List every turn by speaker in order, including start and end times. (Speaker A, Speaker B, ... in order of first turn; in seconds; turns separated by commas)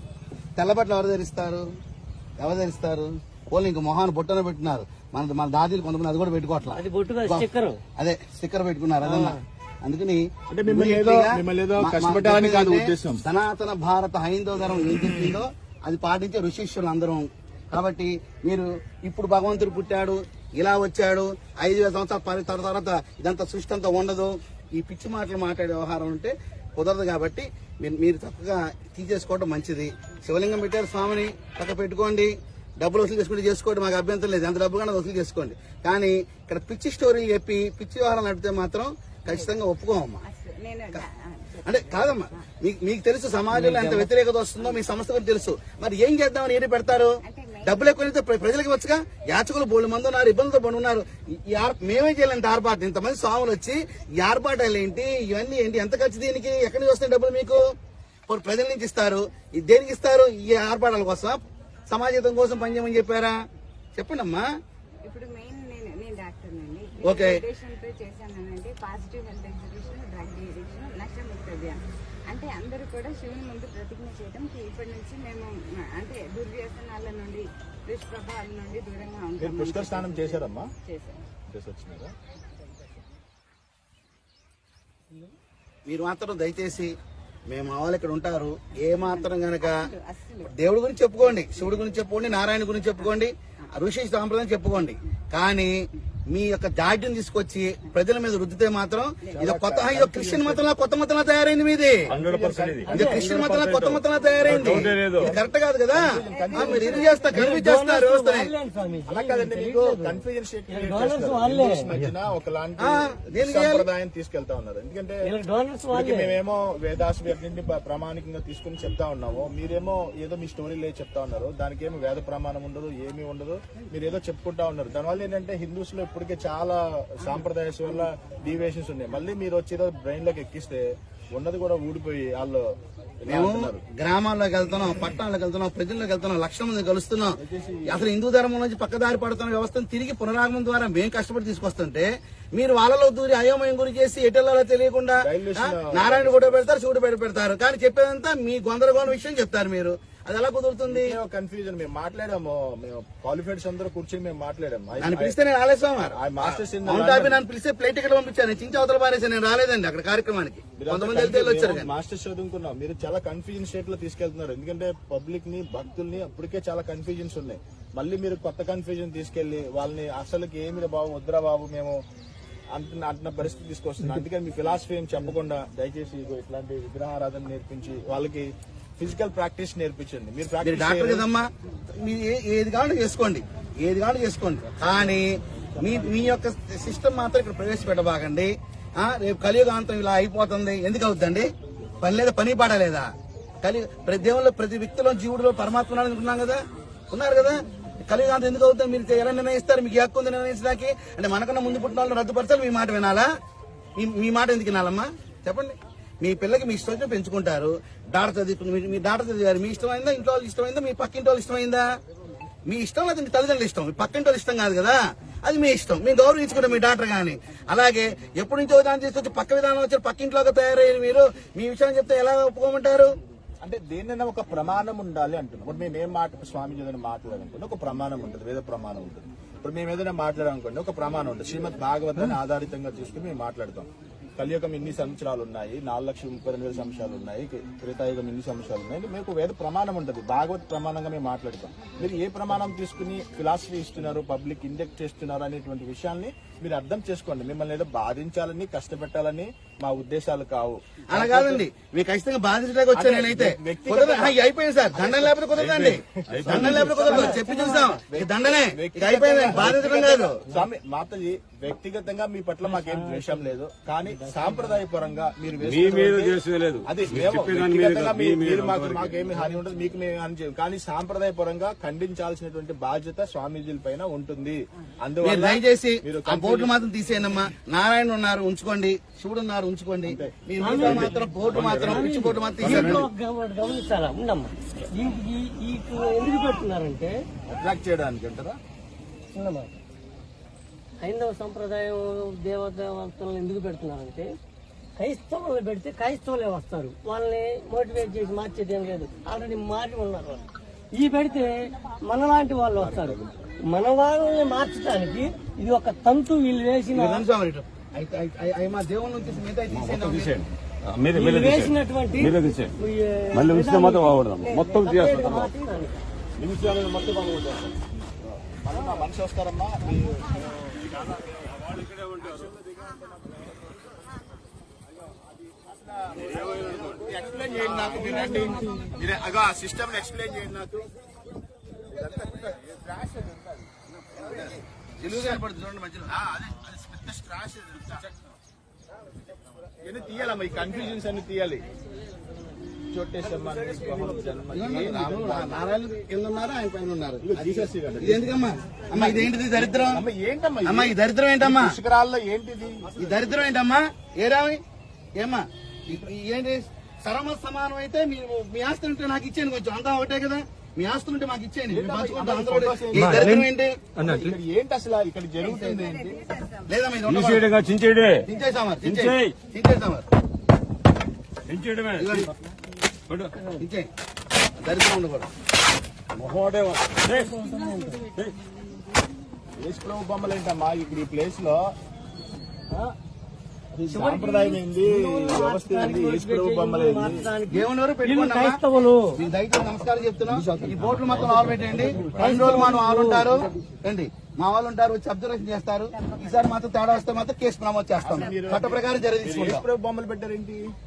Speaker A: 0.6-1.7, Speaker A: 2.4-7.5, Speaker B: 6.7-7.8, Speaker A: 8.0-40.2, Speaker B: 9.0-9.4, Speaker C: 10.5-13.2, Speaker D: 40.2-41.7, Speaker A: 41.6-47.1, Speaker B: 43.5-44.1, Speaker D: 47.2-48.1, Speaker A: 47.6-57.6, Speaker A: 58.3-63.4, Speaker A: 64.0-64.4, Speaker D: 65.0-81.2, Speaker A: 67.0-67.4, Speaker C: 79.4-80.7, Speaker C: 81.5-82.1, Speaker A: 85.9-86.9, Speaker A: 87.5-89.7, Speaker D: 89.0-90.5, Speaker A: 90.5-95.7, Speaker A: 96.3-102.0, Speaker D: 99.2-99.5, Speaker C: 99.3-100.7, Speaker E: 102.1-105.4, Speaker C: 102.1-103.4, Speaker A: 102.9-108.5, Speaker C: 104.5-105.4, Speaker C: 105.9-107.2, Speaker D: 106.4-107.5, Speaker B: 107.3-111.9, Speaker C: 109.1-115.3, Speaker A: 112.8-113.9, Speaker B: 115.2-116.4, Speaker C: 115.9-133.8, Speaker A: 133.3-151.2, Speaker C: 137.4-138.1, Speaker C: 145.2-146.6, Speaker C: 150.9-155.4, Speaker A: 155.0-161.9, Speaker C: 156.1-157.4, Speaker C: 160.8-172.0, Speaker C: 172.7-181.3, Speaker A: 180.6-181.4, Speaker A: 182.0-191.5, Speaker A: 192.0-193.1, Speaker A: 193.6-196.6, Speaker A: 197.1-203.3, Speaker A: 204.0-211.9, Speaker A: 212.7-223.1, Speaker C: 223.6-251.7, Speaker A: 251.1-260.4, Speaker C: 252.9-254.4, Speaker C: 254.9-255.5, Speaker E: 255.5-257.1, Speaker C: 256.3-276.7, Speaker B: 257.1-258.0, Speaker B: 262.6-263.4, Speaker B: 264.1-264.8, Speaker E: 265.6-269.1, Speaker A: 275.2-283.1, Speaker C: 280.1-281.8, Speaker B: 280.6-287.2, Speaker E: 281.5-283.1, Speaker C: 282.6-283.0, Speaker C: 287.5-288.6, Speaker B: 289.3-289.7, Speaker B: 291.0-294.3, Speaker B: 295.0-300.4, Speaker B: 301.0-307.2, Speaker A: 306.9-310.4, Speaker E: 309.7-312.7, Speaker B: 311.1-316.0, Speaker E: 313.3-315.5, Speaker E: 316.4-317.6, Speaker C: 316.9-321.5, Speaker E: 321.7-322.4, Speaker C: 322.2-323.1, Speaker C: 325.6-330.9, Speaker E: 326.3-327.0, Speaker B: 328.1-328.8, Speaker C: 331.9-333.6, Speaker A: 334.2-334.4, Speaker C: 334.2-335.4, Speaker A: 335.0-336.1, Speaker C: 336.1-338.3, Speaker C: 339.8-341.7, Speaker C: 342.9-345.6, Speaker A: 344.5-350.0, Speaker C: 347.2-348.4, Speaker C: 348.9-353.1, Speaker A: 350.6-351.8, Speaker A: 353.0-354.6, Speaker A: 355.2-363.8, Speaker C: 361.7-363.3, Speaker B: 362.9-364.3, Speaker C: 364.0-366.2, Speaker D: 365.4-366.7, Speaker A: 366.7-367.5, Speaker E: 367.1-368.3, Speaker A: 368.3-370.1, Speaker E: 368.8-369.4, Speaker E: 371.5-372.3, Speaker A: 372.0-372.3, Speaker E: 373.1-373.4, Speaker B: 373.4-373.6, Speaker A: 373.6-373.9, Speaker A: 374.6-375.3, Speaker E: 376.1-377.3, Speaker B: 377.1-378.1, Speaker C: 379.6-381.8, Speaker C: 383.7-387.3, Speaker B: 383.9-389.2, Speaker A: 387.5-388.6, Speaker A: 389.1-399.7, Speaker C: 390.3-392.6, Speaker B: 392.1-393.5, Speaker C: 398.0-400.6